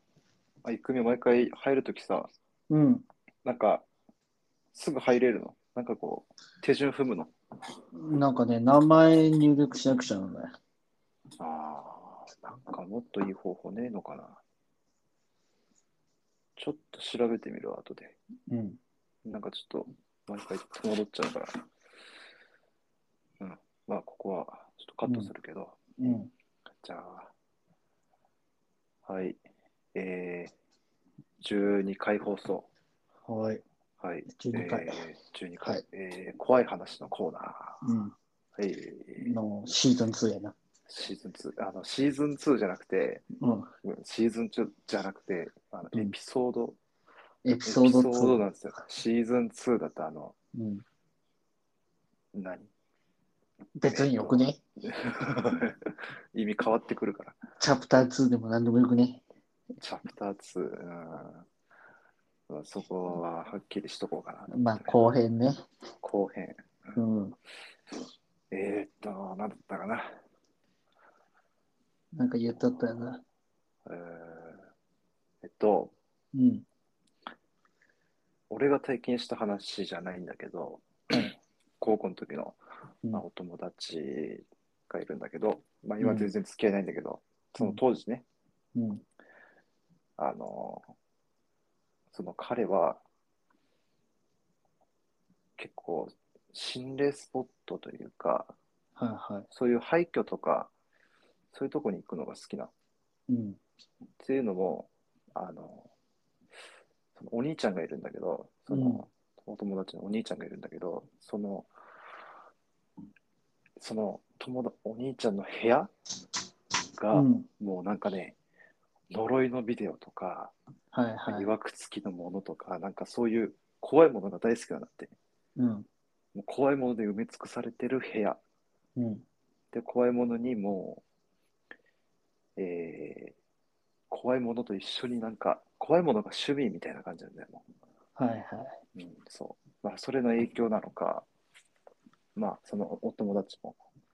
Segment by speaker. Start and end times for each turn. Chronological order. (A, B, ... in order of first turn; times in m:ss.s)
0:00.6-0:02.3 A
0:02.7-0:03.0 B
0:03.4-0:03.8 A
0:04.7-0:07.3 A
0:07.9-0:10.5 B
0:11.4-0:14.4 A
0:16.6-0:18.1 A
0:18.5-0:18.8 B
0:19.2-0:21.6 A
0:23.4-0:25.9 A
0:25.0-0:25.3 B
0:26.0-0:26.3 B
0:26.8-0:27.3 A
0:29.0-0:29.4 A
0:29.9-0:30.5 A
0:31.4-0:32.7 A
0:33.2-0:33.6 B
0:34.0-0:37.8 A
0:34.3-0:35.0 B
0:37.8-0:38.1 B
0:38.6-0:39.3 A
0:39.2-0:40.6 B
0:40.9-0:43.2 A
0:43.4-0:43.7 B
0:43.8-0:46.8 A
0:47.4-0:48.4 B
0:47.6-0:50.3 A
0:50.5-0:50.8 B
0:52.3-0:52.7 A
0:53.8-0:54.6 B
0:53.8-0:57.4 A
0:57.6-0:59.2 B
0:59.8-1:01.5 A
1:02.5-1:04.9 A
1:04.5-1:05.6 B
1:06.0-1:07.0 A
1:07.0-1:07.4 B
1:08.5-1:10.2 A
1:12.1-1:13.2 B
1:13.8-1:14.6 A
1:15.4-1:15.9 A
1:16.3-1:16.6 B
1:18.5-1:22.6 A
1:23.1-1:28.2 A
1:26.0-1:26.3 B
1:28.7-1:29.0 B
1:30.2-1:30.8 A
1:32.1-1:33.0 A
1:35.6-1:38.5 A
1:39.0-1:39.5 B
1:39.5-1:40.7 A
1:41.5-1:42.7 A
1:43.3-1:43.6 B
1:44.2-1:45.9 A
1:47.2-1:51.7 A
1:48.7-1:49.0 B
1:53.8-1:55.9 A
1:57.0-1:58.4 A
1:57.1-1:57.5 B
1:59.1-2:00.5 A
2:00.9-2:01.5 B
2:01.3-2:05.1 A
2:05.6-2:05.9 B
2:06.3-2:08.4 A
2:09.0-2:09.2 B
2:09.7-2:11.0 A
2:12.6-2:13.3 A
2:14.1-2:17.6 A
2:18.2-2:18.8 B
2:19.0-2:21.3 A
2:22.4-2:23.8 A